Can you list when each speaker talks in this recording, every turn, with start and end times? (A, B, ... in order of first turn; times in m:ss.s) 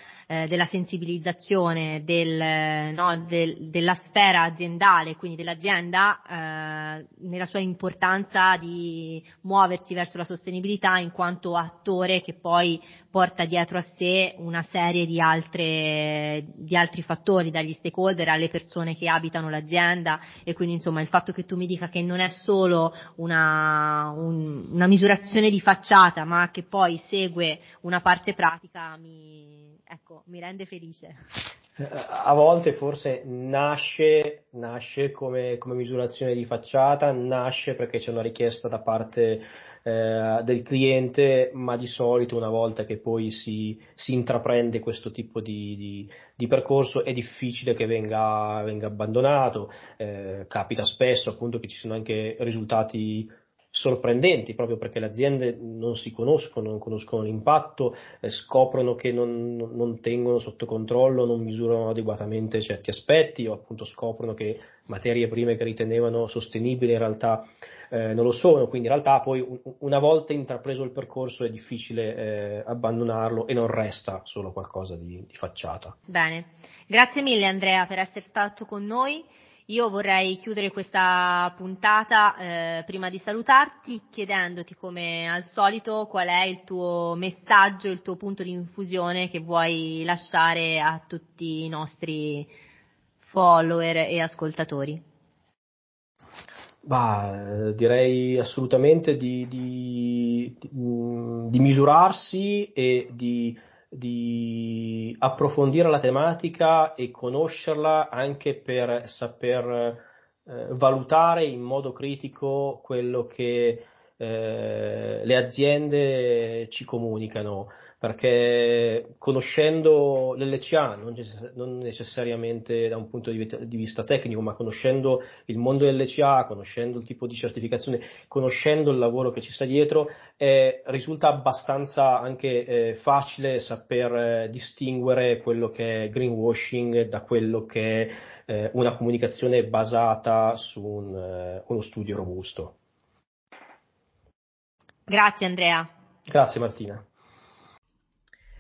0:00.3-0:31.2 A
0:31.8-1:16.0 B
1:16.1-1:32.5 A
1:33.2-1:35.0 A
1:36.8-2:22.7 B
2:25.1-2:25.9 A
2:26.3-2:27.0 B